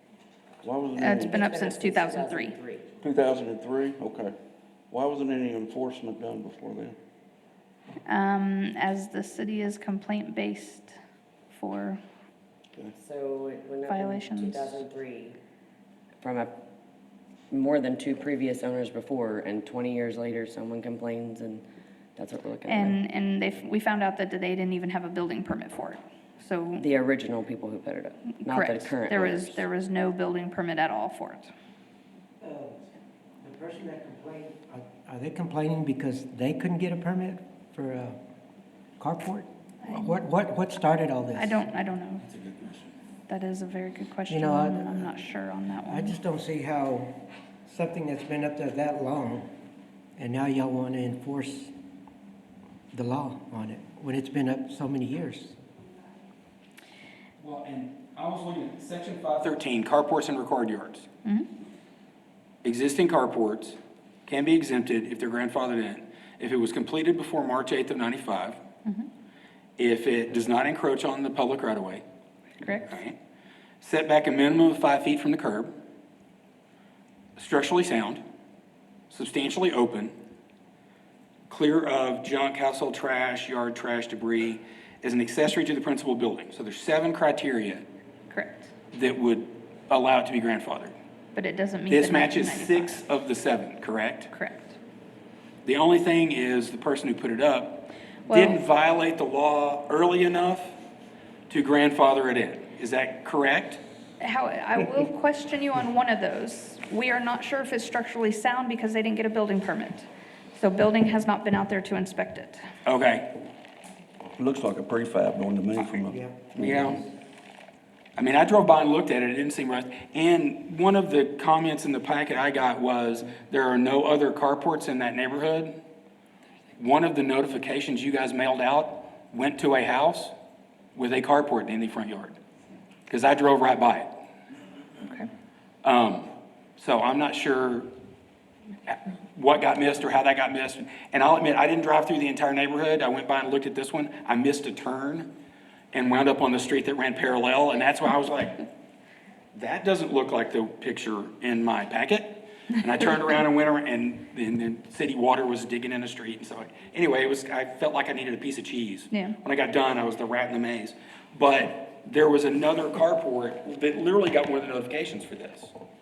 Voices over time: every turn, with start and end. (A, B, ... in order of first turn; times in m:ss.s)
0:00.6-0:01.4 A
0:01.0-0:02.6 B
0:01.0-0:02.9 C
0:03.0-0:04.3 A
0:04.9-0:07.0 A
0:08.1-0:11.0 B
0:11.5-0:12.0 B
0:13.0-0:15.4 C
0:13.9-0:14.8 B
0:16.2-0:16.6 C
0:17.5-0:21.6 C
0:22.2-0:23.0 C
0:22.7-0:26.9 B
0:26.8-0:29.6 C
0:28.3-0:31.5 B
0:32.4-0:32.8 D
0:33.4-0:38.2 D
0:39.0-0:41.6 D
0:39.8-0:40.2 B
0:41.3-0:42.2 B
0:42.3-0:42.8 E
0:43.3-0:46.2 B
0:44.3-0:45.1 D
0:45.8-0:47.1 D
0:47.7-0:49.5 D
0:50.2-0:51.7 D
0:52.9-0:55.6 D
0:57.4-1:01.1 E
1:02.6-1:08.6 E
1:09.8-1:12.0 E
1:12.6-1:12.9 B
1:12.8-1:13.2 E
1:13.8-1:15.7 E
1:17.4-1:18.2 E
1:19.1-1:20.1 E
1:21.5-1:27.8 E
1:28.3-1:28.7 B
1:28.9-1:31.0 E
1:31.3-1:33.0 B
1:31.9-1:34.3 E
1:34.3-1:34.8 B
1:35.6-1:40.8 E
1:38.3-1:38.6 B
1:41.5-1:43.8 E
1:44.2-1:52.6 B
1:52.8-1:53.3 E
1:54.4-1:56.9 A
1:56.1-1:57.1 D
1:56.6-1:57.0 E
1:58.2-2:05.8 E
2:06.8-2:10.3 E
2:10.9-2:12.4 E
2:13.1-2:14.1 E
2:15.0-2:15.3 B
2:15.8-2:17.9 E
2:18.9-2:25.3 E
2:25.9-2:28.6 E
2:29.5-2:45.7 E
2:39.1-2:39.4 B